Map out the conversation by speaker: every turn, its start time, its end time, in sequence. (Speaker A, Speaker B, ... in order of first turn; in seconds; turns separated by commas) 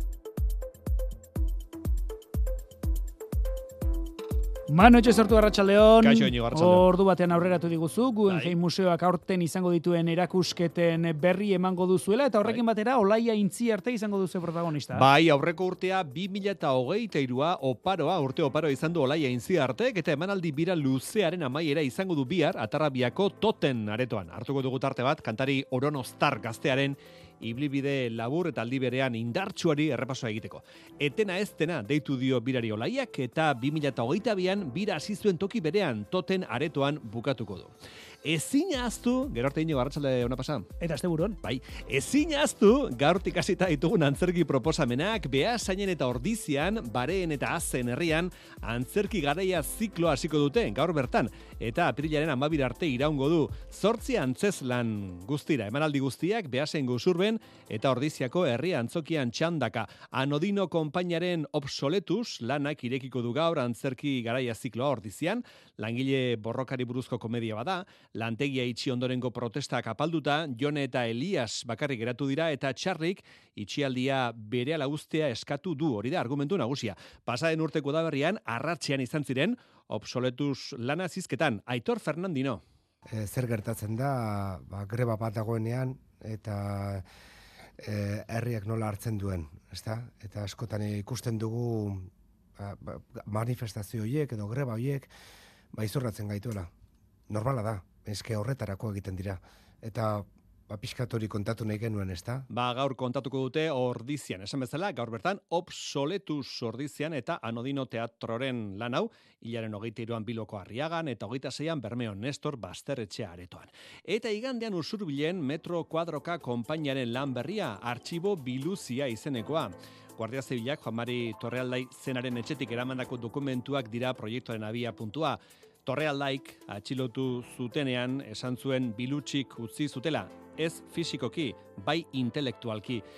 Speaker A: 4.7-15.1, Speaker B: 6.0-6.9, Speaker B: 8.3-8.5, Speaker B: 14.9-37.7, Speaker B: 38.2-40.7, Speaker A: 40.8-41.4, Speaker B: 41.4-82.6, Speaker C: 83.1-87.0, Speaker C: 87.8-95.1, Speaker C: 95.7-96.7, Speaker C: 97.3-102.5, Speaker B: 102.5-133.0